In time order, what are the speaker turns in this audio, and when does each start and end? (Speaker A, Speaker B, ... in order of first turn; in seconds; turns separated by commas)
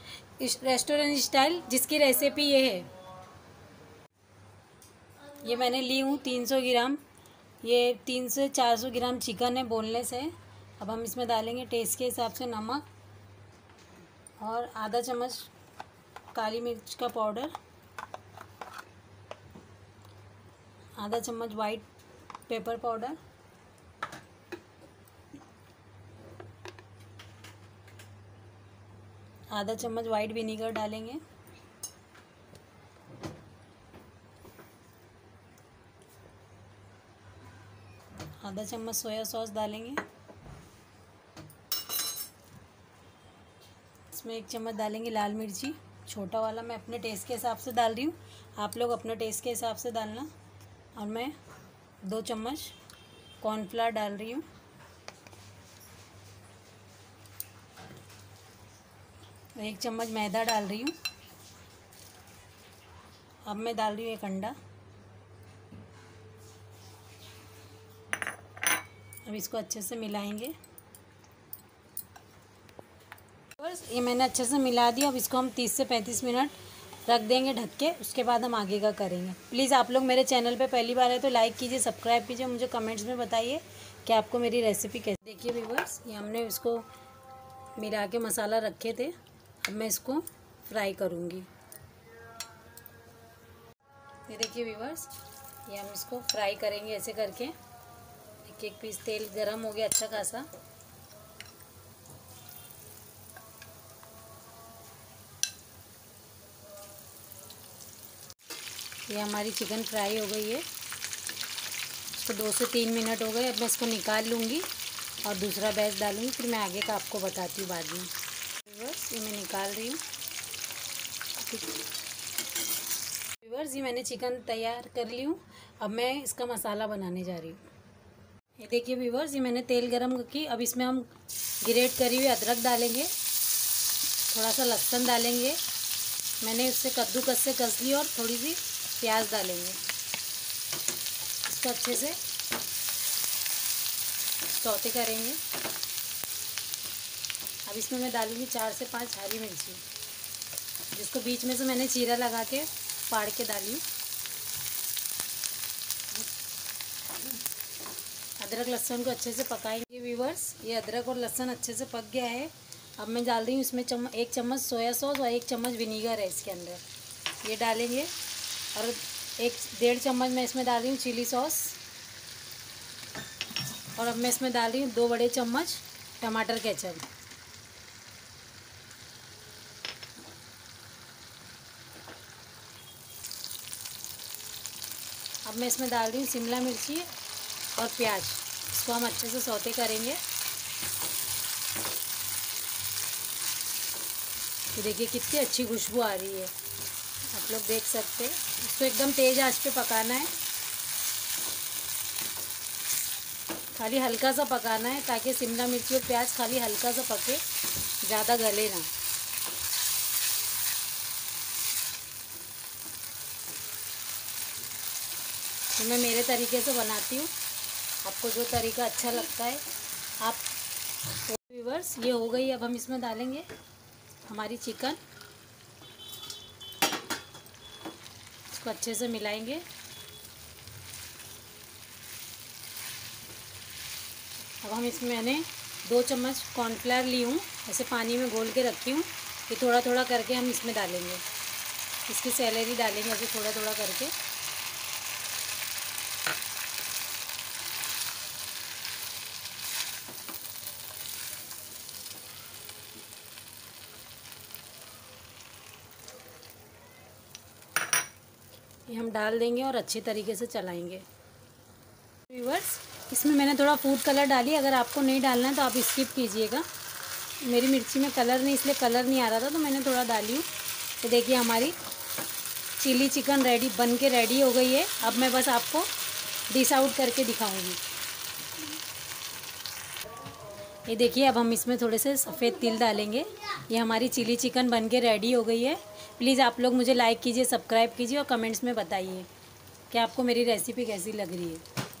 Speaker A: 0.4-2.9, Speaker A: 5.4-7.0, Speaker A: 7.6-12.8, Speaker A: 14.4-15.5, Speaker A: 16.3-17.5, Speaker A: 21.0-21.9, Speaker A: 22.5-23.2, Speaker A: 29.5-31.2, Speaker A: 38.4-40.0, Speaker A: 44.1-50.3, Speaker A: 50.9-51.4, Speaker A: 52.0-52.7, Speaker A: 53.4-54.5, Speaker A: 59.5-61.0, Speaker A: 63.4-64.5, Speaker A: 69.2-70.5, Speaker A: 73.5-86.9, Speaker A: 87.8-91.5, Speaker A: 94.3-95.1, Speaker A: 95.7-97.5, Speaker A: 98.4-100.5, Speaker A: 109.1-110.6, Speaker A: 112.1-114.7, Speaker A: 115.2-120.0, Speaker A: 121.4-121.7, Speaker A: 123.4-127.6, Speaker A: 128.6-131.1, Speaker A: 131.6-133.1, Speaker A: 134.3-135.6, Speaker A: 136.4-139.8, Speaker A: 141.4-142.2, Speaker A: 144.4-145.4, Speaker A: 147.7-149.8, Speaker A: 150.9-153.8, Speaker A: 158.4-166.8, Speaker A: 167.4-168.1, Speaker A: 168.7-171.8, Speaker A: 173.9-177.0, Speaker A: 185.4-187.1, Speaker A: 187.8-190.2, Speaker A: 194.7-196.5, Speaker A: 197.3-200.3, Speaker A: 203.7-207.4, Speaker A: 208.0-208.9, Speaker A: 215.7-217.3, Speaker A: 218.0-219.6, Speaker A: 220.2-220.4, Speaker A: 221.2-223.4, Speaker A: 224.2-225.0, Speaker A: 228.5-229.6, Speaker A: 234.6-241.2, Speaker A: 242.0-244.1, Speaker A: 258.9-261.0, Speaker A: 262.3-266.6, Speaker A: 267.4-270.5, Speaker A: 271.0-271.8, Speaker A: 272.8-275.9, Speaker A: 276.5-277.8, Speaker A: 280.9-289.3, Speaker A: 289.9-291.6